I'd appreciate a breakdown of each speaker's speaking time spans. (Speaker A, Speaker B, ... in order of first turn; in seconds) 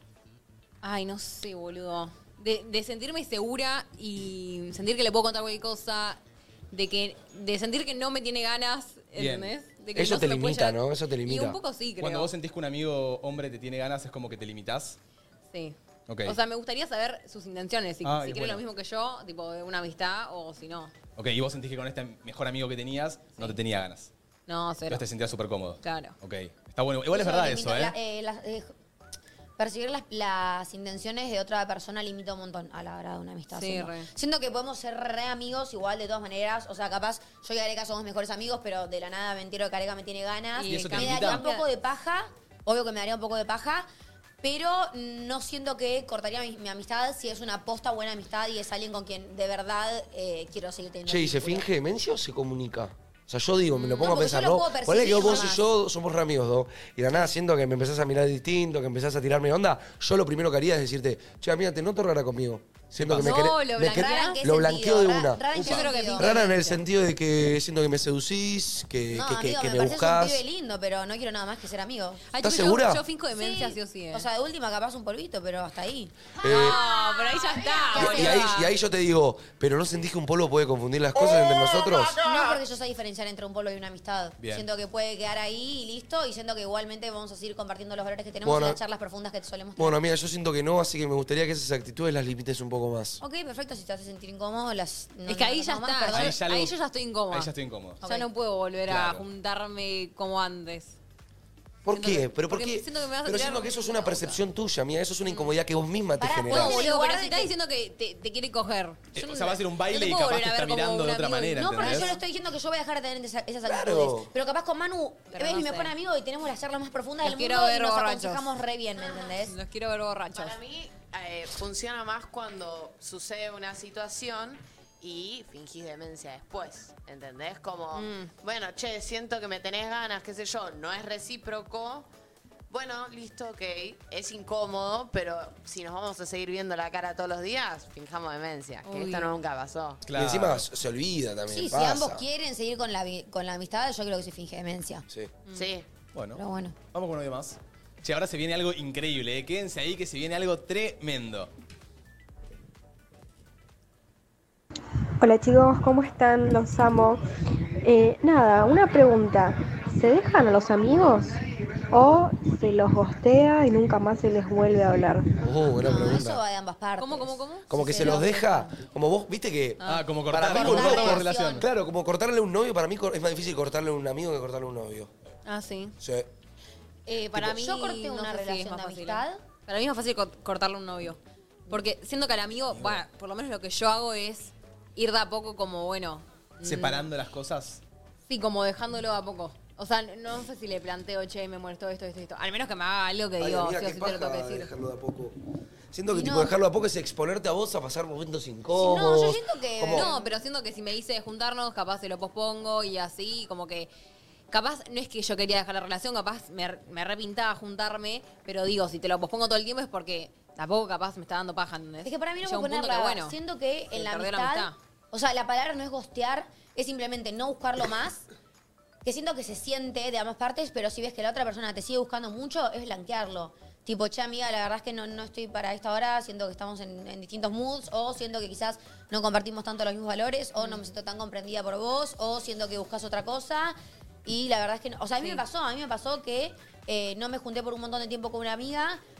Speaker A: 0.8-6.2, 6.7-12.3, 15.5-20.9, 24.5-25.1, 25.8-26.1, 33.5-34.1, 40.5-41.7, 53.7-54.2, 55.0-55.6, 63.2-64.4, 65.5-66.8, 72.3-74.3, 76.4-78.7, 95.3-97.5, 98.0-101.0, 101.9-104.4, 105.3-105.5, 106.5-112.2, 115.3-115.9, 117.2-120.6, 127.9-128.3, 138.8-139.3, 167.0-168.7, 169.8-171.2, 175.4-175.9, 177.1-187.1, 188.3-194.7, 199.9-203.9, 204.5-213.3, 213.9-214.8, 230.6-230.8, 235.2-235.4
Speaker B: 9.2-9.5, 12.0-15.0, 16.1-16.4, 18.0-18.6, 21.1-24.1, 24.9-27.9, 40.7-41.4, 63.0-63.3, 84.4-84.7, 96.1-96.8, 97.3-98.0, 98.8-99.2, 109.1-112.1, 140.0-140.7, 146.1-151.5, 169.8-171.7, 182.7-183.0, 186.6-187.8
Speaker C: 9.9-11.6, 51.1-70.4, 72.4-73.0, 76.4-76.8, 78.0-82.2, 88.4-88.8, 89.8-93.2, 101.8-106.8, 113.7-114.3, 140.1-142.2, 165.4-166.4, 167.7-175.1, 176.0-176.3, 193.4-195.3, 195.9-200.1
Speaker D: 27.1-28.7, 29.6-43.9, 44.4-51.6, 53.9-55.6, 63.2-66.4, 69.1-72.3, 73.3-78.5, 81.9-90.0, 93.2-96.4, 98.0-98.3, 106.2-107.5, 111.5-119.5, 141.5-145.1, 146.3-146.8, 165.8-168.6, 170.5-171.7, 177.3-179.4, 196.1-196.6, 198.8-200.3, 212.0-218.2, 219.0-239.0
Speaker E: 120.3-132.1, 132.7-140.0, 145.5-145.8
Speaker F: 155.2-157.2, 157.8-161.4, 161.9-165.3